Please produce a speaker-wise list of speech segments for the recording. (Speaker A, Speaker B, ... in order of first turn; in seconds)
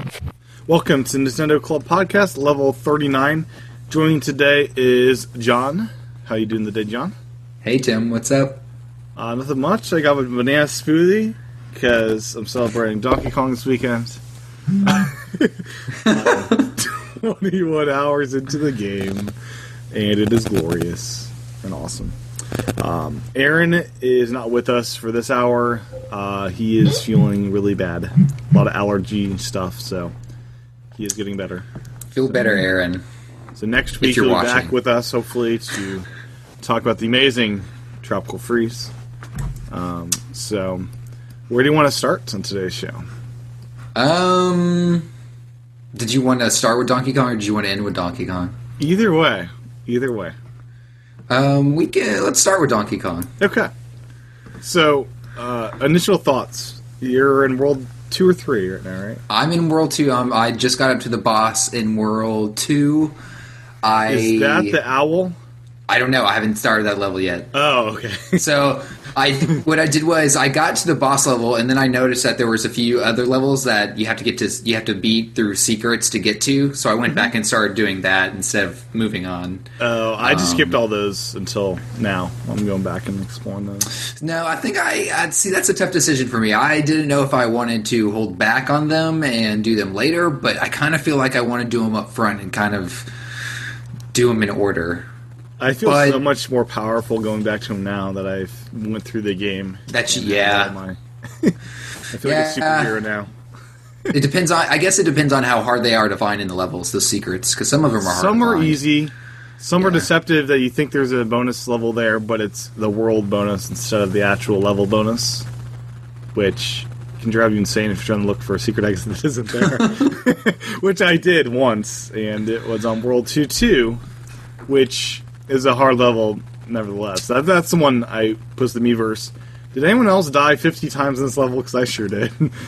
Speaker A: 0.7-7.1, 9.2-14.2, 14.8-19.3, 19.9-22.2, 22.8-30.1, 31.0-31.7, 33.6-36.1, 36.6-38.9, 39.7-40.9, 41.5-43.0, 48.8-50.4, 53.4-53.7, 54.6-59.2, 64.1-65.4, 67.5-68.4, 79.8-83.9, 95.6-101.6, 102.1-103.3, 108.0-115.5, 116.3-124.0, 124.7-132.6
Speaker B: 7.6-8.6, 16.1-16.5, 32.1-33.0, 34.0-34.7, 44.0-45.1, 45.9-48.5, 51.3-53.3, 59.3-63.2, 63.8-64.8, 65.9-67.5, 68.4-79.7, 80.2-80.8, 84.2-93.1, 94.1-95.1, 95.8-96.2, 99.9-100.8, 102.2-103.0, 104.1-108.8, 109.8-110.1, 119.8-120.1